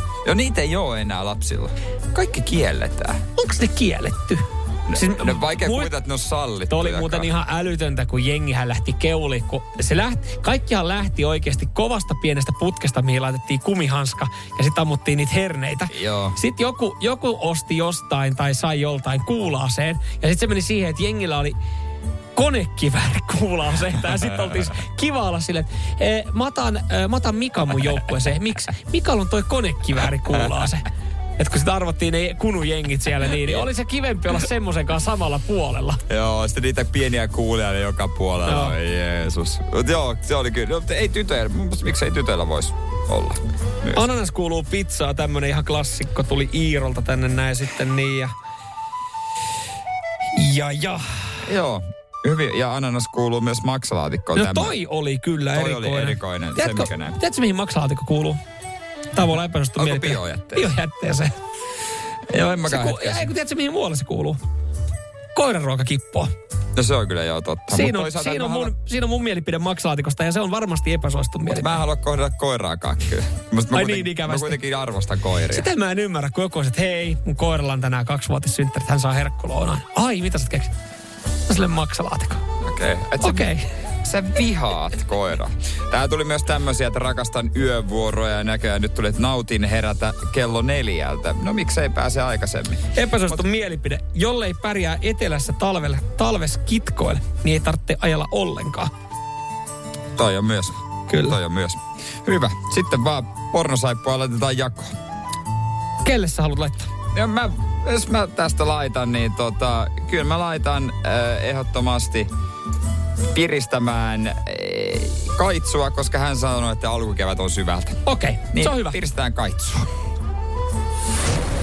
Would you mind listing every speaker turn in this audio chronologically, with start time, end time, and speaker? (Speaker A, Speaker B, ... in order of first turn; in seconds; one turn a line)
Speaker A: 0.2-3.2
Speaker B: 3.4-5.9
Speaker A: 4.9-7.3
Speaker B: 6.7-21.6
Speaker A: 15.9-16.4
Speaker B: 22.4-30.9
Speaker B: 31.4-36.0
Speaker A: 36.1-44.1
Speaker B: 38.5-38.8
Speaker B: 43.9-48.3
Speaker B: 50.4-51.0
Speaker A: 51.5-54.8
Speaker B: 54.3-58.4
Speaker A: 55.5-57.2
Speaker B: 59.1-61.4
Speaker A: 59.8-60.7
Speaker A: 62.3-63.3
Speaker B: 62.7-64.4
Speaker B: 65.3-66.3
Speaker A: 66.8-68.7
Speaker B: 67.7-71.8
Speaker A: 71.5-75.7
Speaker B: 73.7-74.6
Speaker B: 75.5-80.7
Speaker B: 81.5-82.4
Speaker A: 82.6-83.5
Speaker B: 83.2-83.7
Speaker A: 84.0-93.4
Speaker B: 92.9-98.9
Speaker A: 100.2-105.0
Speaker B: 101.1-101.4
Speaker B: 106.0-106.9
Speaker A: 107.1-112.3
Speaker A: 113.3-119.9
Speaker B: 118.1-119.0